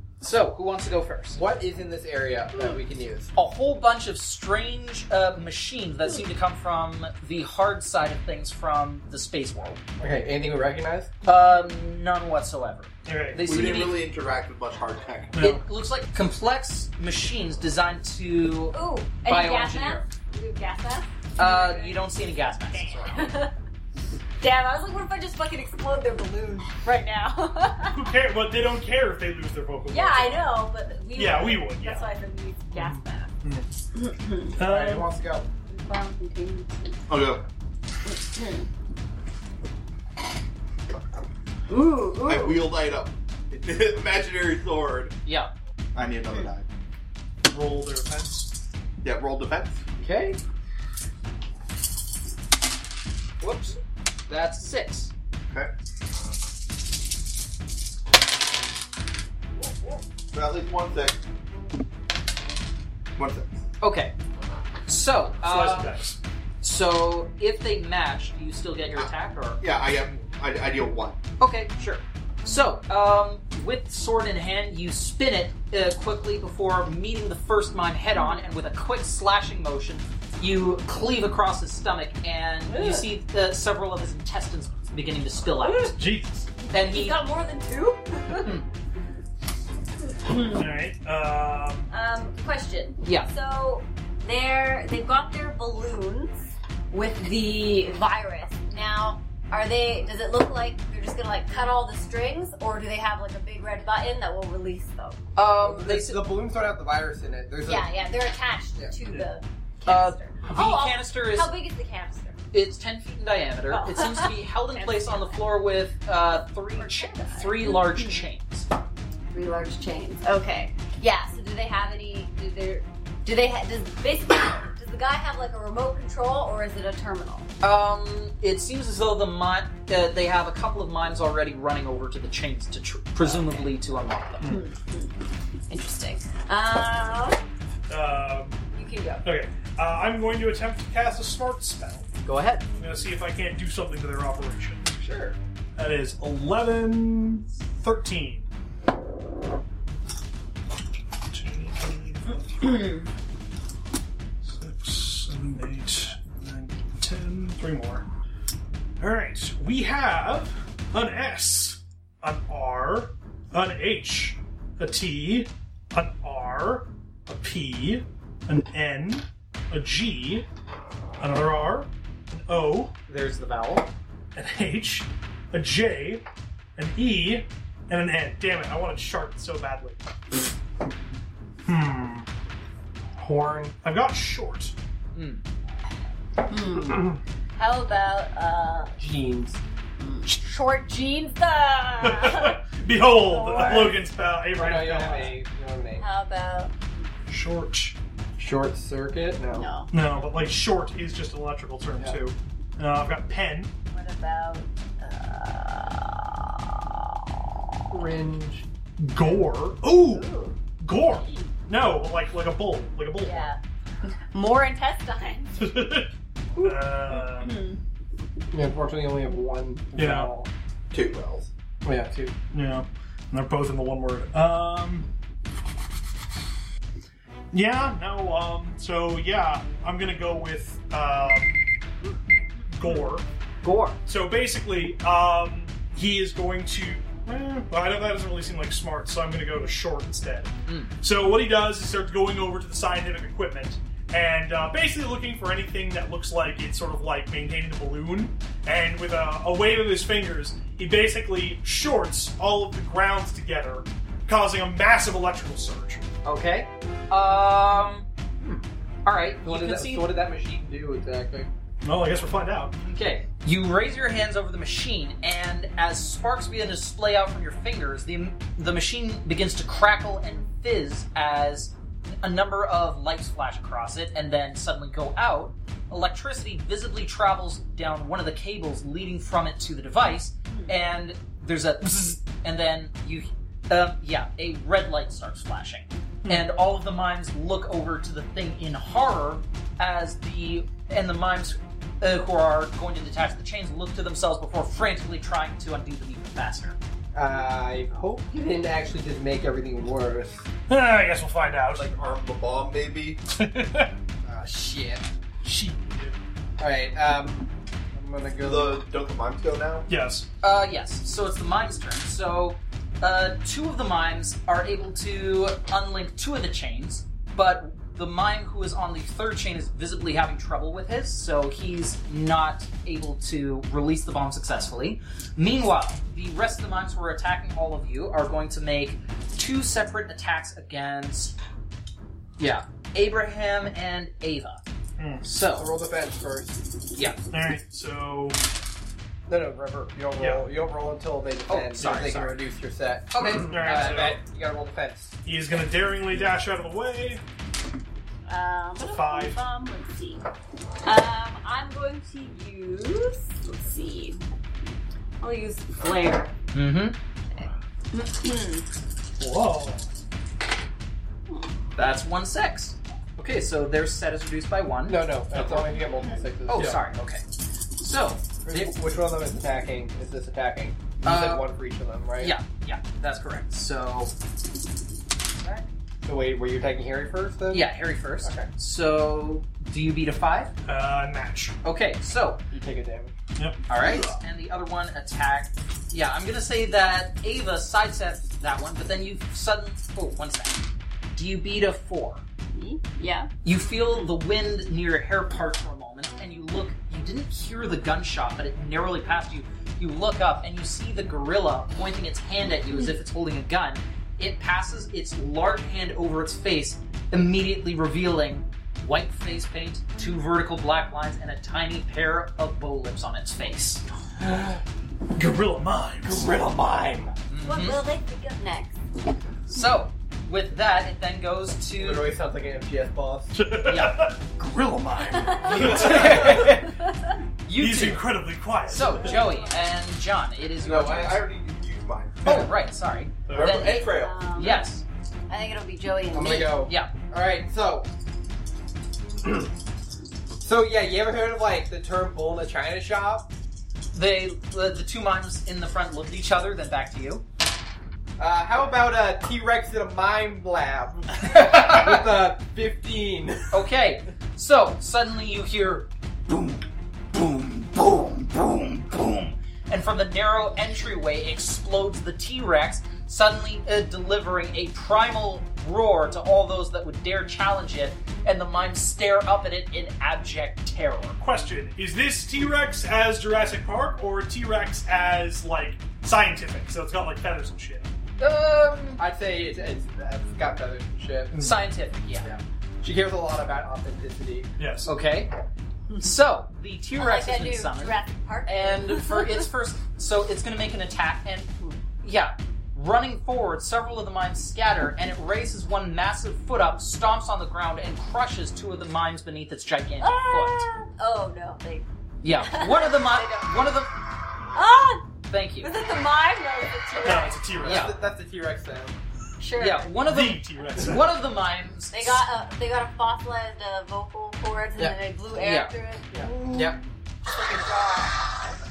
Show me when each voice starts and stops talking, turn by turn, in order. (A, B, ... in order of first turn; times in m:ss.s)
0:00.2-0:01.4 A
0:01.3-0:03.3 B
0:03.3-0:09.8 A
0:10.0-0:11.1 B
0:11.2-0:14.0 A
0:13.0-0:13.4 C
0:13.4-0:15.4 D
0:15.3-0:15.6 C
0:15.4-0:20.0 A
0:18.7-0:22.0 E
0:21.4-0:23.4 A
0:22.7-0:23.5 E
0:24.4-0:28.1 E
0:27.9-0:30.4 C
0:29.9-0:33.3 E
0:31.1-0:32.1 C
0:32.7-0:33.7 C
0:33.9-0:34.6 E
0:34.6-0:35.1 C
0:34.7-0:35.4 B
0:35.7-0:37.0 E
0:37.1-0:37.4 D
0:38.0-0:38.7 E
0:41.7-0:42.7 E
0:42.2-0:45.1 D
0:45.2-0:45.5 A
0:45.9-0:46.7 D
0:47.4-0:48.5 C
0:49.0-0:49.8 D
0:50.0-0:50.4 A
0:53.4-0:55.1 A
1:00.3-1:01.2 D
1:03.2-1:03.6 D
1:03.8-1:04.1 A
1:04.9-1:05.9 A
1:05.4-1:06.2 C
1:06.6-1:09.6 A
1:09.0-1:11.2 D
1:11.4-1:25.9 A
1:22.7-1:23.0 E
1:25.6-1:25.9 E
1:25.8-1:26.5 C
1:26.7-1:28.5 E
1:26.7-1:27.2 A
1:28.4-1:28.7 A
1:30.2-1:30.6 E
1:30.3-1:31.9 C
1:31.9-1:45.2 E
1:33.0-1:33.3 A
1:45.4-1:46.2 A
1:45.6-1:47.9 B
1:47.6-1:52.4 E
1:49.8-1:51.5 A
1:52.5-1:58.7 A
1:53.7-1:55.4 E
1:56.8-1:58.2 E
1:59.3-2:07.5 E
2:07.6-2:14.5 A
2:13.3-2:13.6 E
2:14.4-2:15.2 E
2:15.7-2:17.4 E
2:17.9-2:18.7 C
2:18.7-2:19.2 E
2:19.2-2:22.1 C
2:22.2-2:22.6 A
2:22.8-2:25.0 C
2:25.8-2:28.5 C
2:31.3-2:32.8 C
2:32.7-2:33.0 E
2:34.4-2:38.0 C
2:39.0-2:50.4 C
2:51.2-2:52.9 C
2:53.1-2:53.9 A
2:54.3-2:56.2 C
2:56.8-3:00.0 C
3:01.6-3:02.3 C
3:03.2-3:03.7 B
3:03.5-3:04.7 C
3:05.1-3:05.4 A
3:06.5-3:07.0 E
3:07.6-3:08.9 E
3:09.0-3:09.6 B
3:10.0-3:12.6 E
3:12.0-3:15.4 C
3:13.1-3:14.0 E
3:14.5-3:16.1 B
3:16.0-3:17.1 E
3:17.3-3:18.0 C
3:18.4-3:19.7 B
3:19.5-3:20.3 E
3:19.9-3:23.7 C
3:23.9-3:27.5 E
3:27.9-3:28.6 B
3:29.0-3:30.3 C
3:29.9-3:30.6 E
3:30.8-3:33.5 C
3:33.2-3:35.7 E
3:35.6-3:36.1 C
3:36.6-3:37.8 E
3:36.6-3:37.6 C
3:38.5-3:40.5 B
3:40.0-3:40.3 C
3:40.9-3:41.5 D
3:41.8-3:42.3 B
3:42.5-3:45.1 C
3:47.5-3:51.6 C
3:52.7-3:53.2 C
3:52.8-3:53.1 E
3:53.6-3:54.0 A
3:54.0-4:16.1 C
4:00.7-4:00.9 A
4:16.2-4:20.1 A
4:19.4-4:21.5 B
4:21.8-4:22.7 C
4:22.8-4:56.8 A
4:57.1-5:00.4 B
5:00.7-5:01.9 C
5:01.7-5:03.2 D
5:03.3-5:03.9 C
5:04.2-5:05.1 B
5:05.4-5:06.2 C
5:06.6-5:08.8 B
5:08.4-5:09.9 D
5:09.9-5:10.2 C
5:10.4-5:31.3 A
5:32.4-5:34.6 A
5:35.0-5:35.2 C
5:35.2-5:35.7 A
5:35.5-5:36.6 B
5:36.9-5:37.2 A
5:37.3-5:38.4 C
5:39.3-5:45.1 B
5:40.2-5:40.5 C
5:41.5-5:42.4 A
5:43.1-5:43.6 A
5:43.4-5:44.2 C
5:45.2-5:47.2 C
5:48.3-5:50.2 E
5:48.8-5:49.4 C
5:50.8-5:54.2 E
5:55.2-5:56.3 E
5:56.5-5:57.0 A
5:57.3-5:58.7 E
5:59.2-5:59.8 C
6:01.8-6:05.7 A
6:04.9-6:06.9 B
6:06.5-6:07.2 A
6:07.8-6:08.8 A
6:08.4-6:12.3 B
6:11.0-6:11.5 A
6:12.2-6:14.1 A
6:15.4-6:15.7 A
6:16.0-6:17.7 B
6:17.5-6:20.5 A
6:18.2-6:18.5 B
6:20.6-6:21.5 C
6:21.6-6:22.4 A
6:22.5-6:23.1 B
6:23.4-6:24.1 C
6:23.7-6:30.6 A
6:31.1-6:32.2 A
6:32.5-6:33.3 E
6:33.4-6:53.8 A
6:55.2-6:56.3 C
6:56.0-6:57.1 B
6:57.3-6:57.8 A
6:57.4-6:58.8 E
6:59.5-7:02.1 A
7:01.8-7:03.3 B
7:03.3-7:06.6 C
7:03.6-7:04.1 A
7:05.1-7:07.1 E
7:05.4-7:06.6 A
7:05.6-7:06.6 B
7:07.4-7:08.1 A
7:07.5-7:09.2 C
7:08.6-7:11.3 A
7:09.0-7:09.5 E
7:10.6-7:12.4 D
7:12.2-7:14.8 A
7:13.3-7:13.7 C
7:13.3-7:14.2 D
7:13.8-7:14.7 E
7:15.3-7:16.6 E
7:16.1-7:17.9 B
7:16.6-7:16.9 A
7:20.4-7:23.3 B
7:23.9-7:27.2 A
7:28.2-7:33.5 B
7:31.3-7:32.0 A
7:33.5-7:51.2 A
7:51.2-7:57.9 C
7:58.2-7:59.0 A
7:59.0-8:01.3 B
8:01.3-8:01.6 C
8:01.3-8:02.3 A
8:02.2-8:04.5 B
8:04.6-8:04.9 C
8:04.8-8:05.3 A
8:06.0-8:11.5 A
8:06.9-8:09.4 E
8:12.0-8:20.6 A
8:20.0-8:23.5 E
8:22.2-8:23.9 A
8:24.5-8:25.0 E
8:25.3-8:25.7 A
8:25.6-8:27.4 E
8:27.0-8:28.0 C
8:27.6-8:29.0 B
8:27.6-8:28.0 A
8:29.4-8:29.9 E
8:29.6-8:32.2 A
8:30.0-8:31.1 C
8:31.9-8:36.6 E
8:35.4-8:35.7 A
8:36.1-8:36.8 B
8:37.2-8:38.3 E